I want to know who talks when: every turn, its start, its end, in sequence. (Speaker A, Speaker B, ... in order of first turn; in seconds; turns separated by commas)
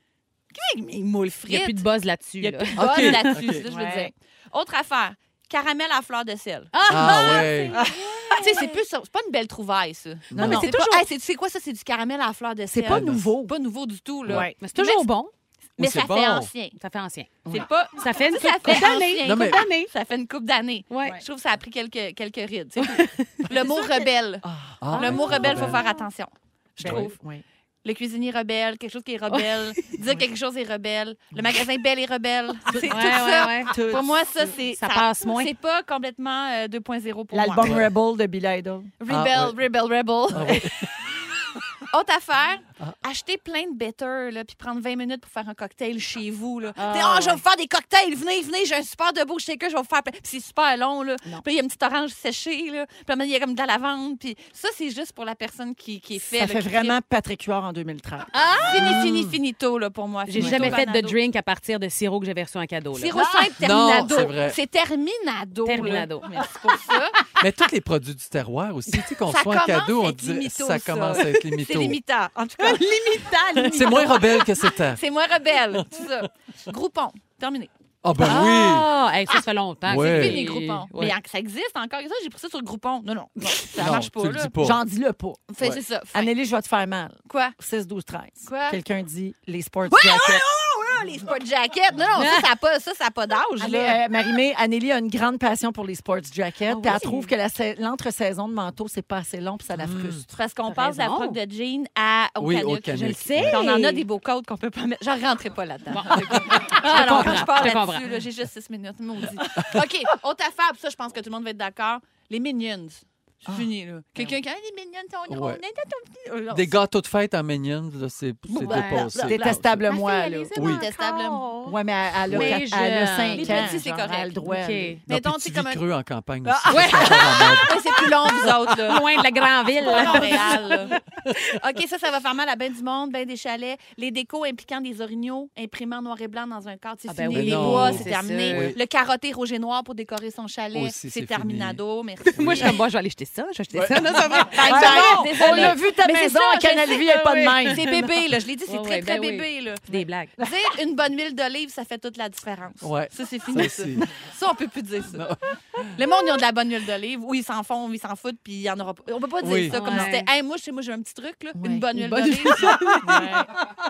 Speaker A: 0.5-1.8, Speaker B: 1.5-3.4, Speaker A: 2.4-7.5, Speaker C: 2.8-3.6, Speaker D: 3.6-4.1, Speaker B: 6.7-8.4, Speaker C: 6.9-7.8, Speaker D: 7.7-8.6, Speaker A: 8.3-15.1, Speaker C: 10.3-10.7, Speaker D: 10.3-11.0, Speaker D: 12.7-13.5, Speaker C: 12.9-13.2, Speaker D: 14.3-14.6, Speaker B: 14.6-15.3, Speaker A: 15.8-16.7, Speaker C: 15.8-16.5, Speaker B: 16.8-17.4, Speaker A: 17.5-27.2, Speaker B: 18.0-19.9, Speaker C: 19.2-19.7, Speaker B: 20.9-21.2, Speaker B: 22.8-23.9, Speaker D: 24.4-25.4, Speaker C: 24.8-25.8, Speaker B: 24.9-25.9, Speaker D: 26.8-27.4, Speaker C: 26.8-27.1, Speaker A: 27.8-37.8, Speaker B: 29.3-29.8, Speaker D: 32.7-34.4, Speaker B: 32.9-33.7, Speaker B: 34.7-35.5, Speaker D: 37.3-39.0, Speaker C: 37.6-37.9, Speaker A: 39.0-40.6, Speaker C: 39.1-39.6, Speaker C: 40.3-40.9, Speaker D: 40.4-40.7, Speaker A: 41.9-57.0, Speaker B: 46.8-47.4, Speaker D: 56.2-58.7, Speaker A: 58.3-61.2, Speaker C: 58.7-59.4, Speaker B: 60.3-63.2, Speaker D: 60.3-60.8, Speaker A: 62.9-67.2, Speaker D: 63.2-63.5, Speaker C: 63.6-64.6, Speaker B: 65.6-66.3, Speaker C: 67.4-72.0, Speaker A: 69.3-77.7, Speaker B: 72.6-74.2, Speaker C: 73.7-75.0, Speaker C: 78.0-78.9, Speaker B: 78.2-81.1, Speaker C: 79.8-80.4, Speaker A: 80.0-84.5, Speaker C: 83.8-84.8, Speaker D: 84.6-90.4, Speaker A: 85.5-86.3, Speaker A: 87.3-87.5, Speaker A: 88.4-88.8, Speaker A: 89.9-94.0, Speaker B: 92.2-92.5, Speaker D: 93.6-100.2, Speaker B: 96.7-97.3, Speaker C: 99.8-100.2, Speaker A: 100.3-116.8, Speaker B: 100.7-101.4, Speaker C: 102.4-103.6, Speaker B: 103.3-104.0, Speaker B: 105.9-108.2, Speaker D: 107.0-107.3, Speaker C: 115.3-115.6, Speaker C: 116.5-119.8, Speaker D: 118.5-120.6, Speaker A: 118.5-118.8, Speaker B: 118.5-123.8, Speaker C: 120.5-120.8, Speaker A: 120.5-121.4, Speaker D: 121.6-125.0, Speaker A: 123.3-124.3, Speaker B: 124.4-125.0, Speaker A: 125.1-125.8, Speaker C: 125.1-127.8, Speaker A: 126.6-129.0, Speaker B: 126.7-131.0, Speaker A: 129.8-142.8, Speaker D: 130.0-130.4, Speaker B: 137.1-138.7, Speaker C: 137.3-138.8, Speaker C: 140.7-141.8, Speaker B: 142.3-145.8, Speaker C: 142.3-142.8, Speaker C: 143.7-144.4, Speaker A: 144.3-147.1, Speaker D: 144.6-147.9, Speaker B: 147.0-150.3, Speaker A: 147.6-155.3, Speaker C: 152.8-154.1, Speaker C: 155.1-155.9, Speaker A: 155.9-163.3, Speaker C: 159.4-160.0, Speaker B: 159.7-160.3, Speaker D: 161.6-161.9, Speaker B: 161.9-163.3, Speaker D: 162.4-163.5